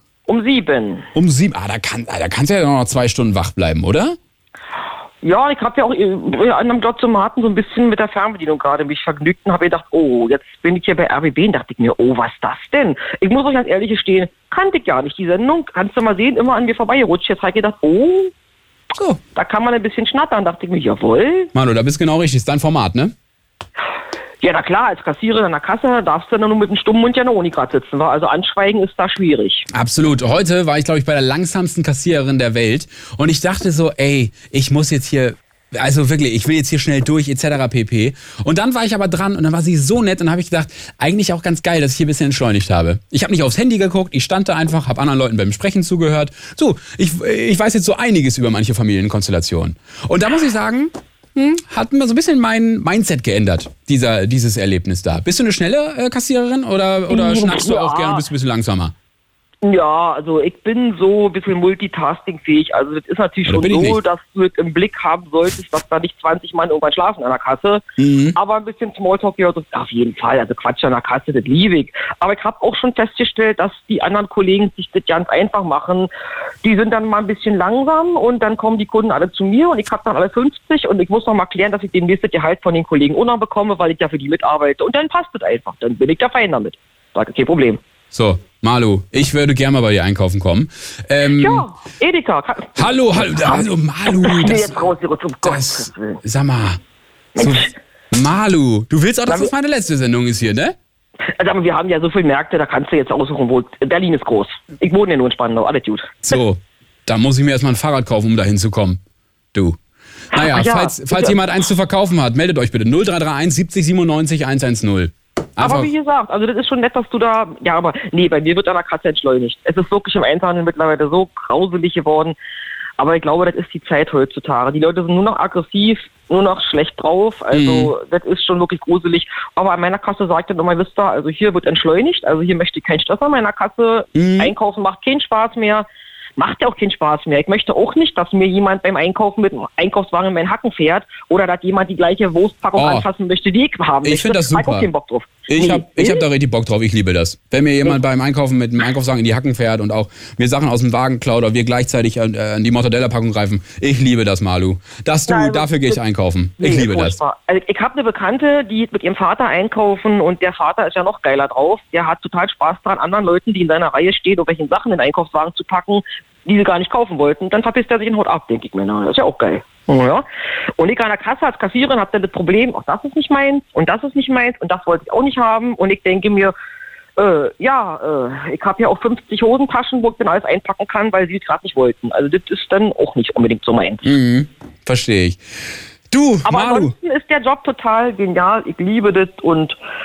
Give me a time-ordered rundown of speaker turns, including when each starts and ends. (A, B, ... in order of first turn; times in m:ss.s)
0:00.3-0:01.0 A
0:01.1-0:04.2 B
0:05.2-0:18.3 A
0:19.3-0:21.5 A
0:21.5-0:23.1 B
0:24.4-0:29.6 A
0:29.7-0:58.9 B
0:57.1-0:58.2 A
0:59.6-1:07.8 A
1:03.4-1:04.0 B
1:08.0-1:08.4 B
1:08.4-1:16.1 A
1:16.6-1:27.8 A
1:28.1-1:31.6 B
1:31.4-1:36.2 A
1:32.8-1:34.9 B
1:35.4-1:36.8 B
1:37.4-1:37.7 A
1:37.4-1:40.8 B
1:41.4-1:46.2 A
1:46.2-1:49.0 B
1:50.3-1:55.9 B
1:50.3-1:51.4 A
1:55.6-2:02.4 A
2:03.0-2:15.9 A
2:07.5-2:07.9 B
2:14.1-2:14.5 B
2:16.4-2:26.2 A
2:22.8-2:23.1 B
2:24.0-2:24.9 B
2:25.5-2:37.2 B
2:35.3-2:36.0 A
2:36.6-2:50.2 A
2:50.8-2:56.5 A
2:57.2-3:04.0 A
3:04.0-3:05.4 B
3:06.1-3:06.9 B
3:06.4-3:09.8 A